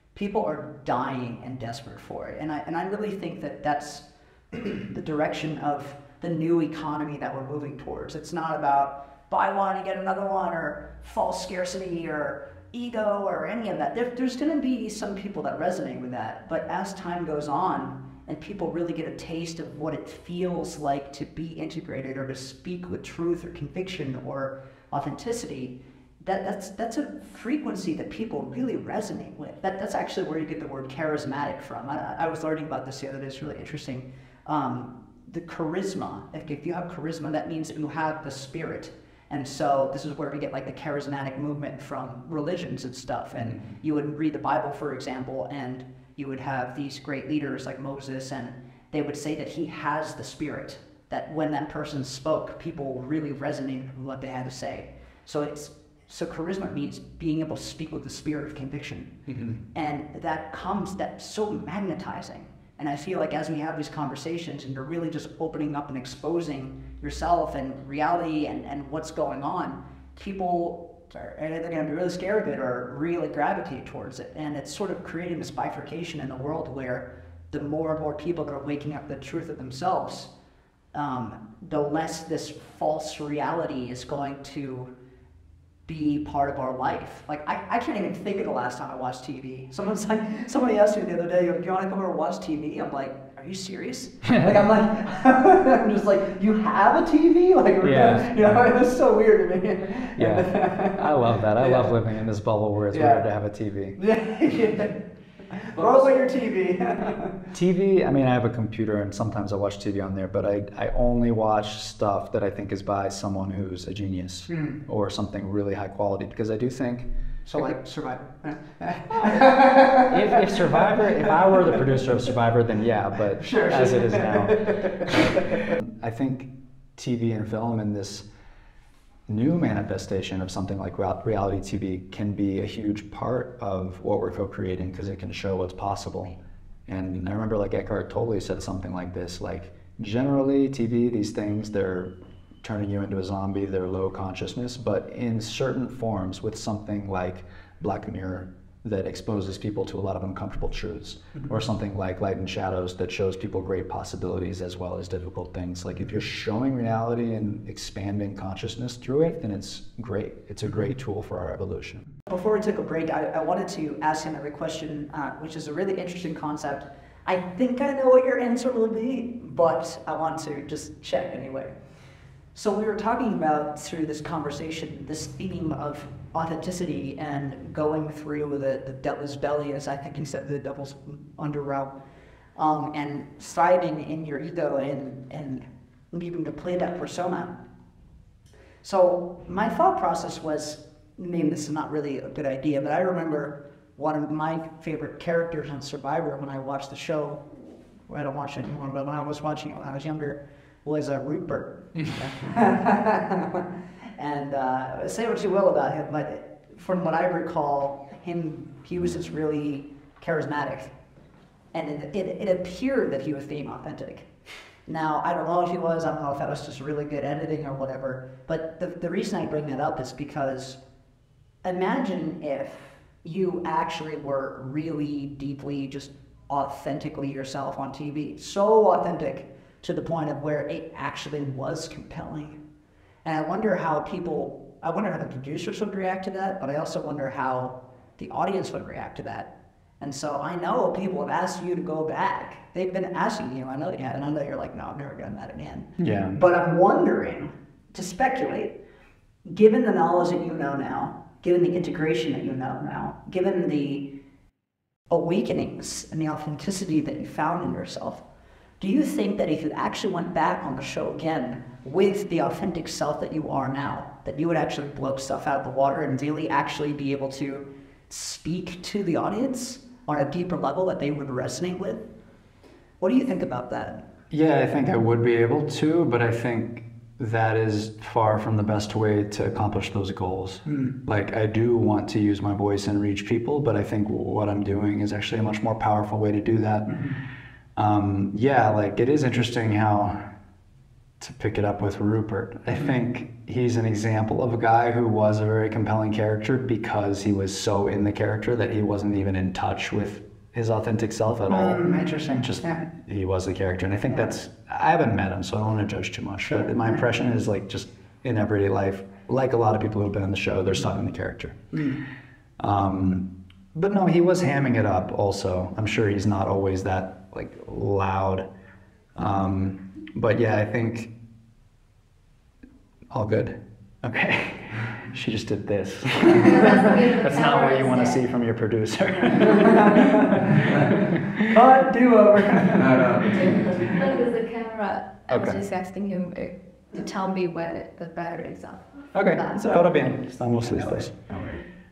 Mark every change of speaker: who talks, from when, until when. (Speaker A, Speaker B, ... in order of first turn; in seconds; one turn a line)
Speaker A: 0.1-59.1
Speaker B: 59.3-59.6
Speaker A: 59.7-80.3
Speaker A: 80.9-84.9
Speaker A: 85.9-101.9
Speaker B: 94.2-94.5
Speaker B: 97.8-98.5
Speaker B: 100.2-104.0
Speaker A: 102.9-103.2
Speaker A: 104.0-107.4
Speaker B: 107.5-117.8
Speaker A: 114.5-114.8
Speaker A: 117.5-120.8
Speaker B: 119.2-128.3
Speaker A: 123.4-125.7
Speaker B: 129.3-162.1
Speaker A: 162.3-171.8
Speaker A: 172.5-181.9
Speaker A: 182.6-187.6
Speaker A: 188.8-210.9
Speaker A: 211.7-214.3
Speaker A: 214.9-220.8
Speaker A: 221.6-232.6
Speaker A: 233.2-248.8
Speaker B: 246.0-246.4
Speaker A: 249.4-254.2
Speaker A: 255.1-258.2
Speaker A: 258.8-272.1
Speaker A: 273.0-274.1
Speaker B: 274.3-287.1
Speaker A: 280.6-280.9
Speaker A: 286.9-287.2
Speaker B: 287.8-290.3
Speaker B: 291.2-311.8
Speaker A: 301.5-302.8
Speaker A: 311.7-312.0
Speaker B: 312.6-318.5
Speaker B: 319.1-321.1
Speaker B: 323.1-331.6
Speaker C: 326.4-328.2
Speaker A: 329.6-333.9
Speaker B: 332.6-333.9
Speaker C: 333.4-338.8
Speaker B: 335.3-335.6
Speaker B: 339.1-341.1
Speaker A: 340.6-341.6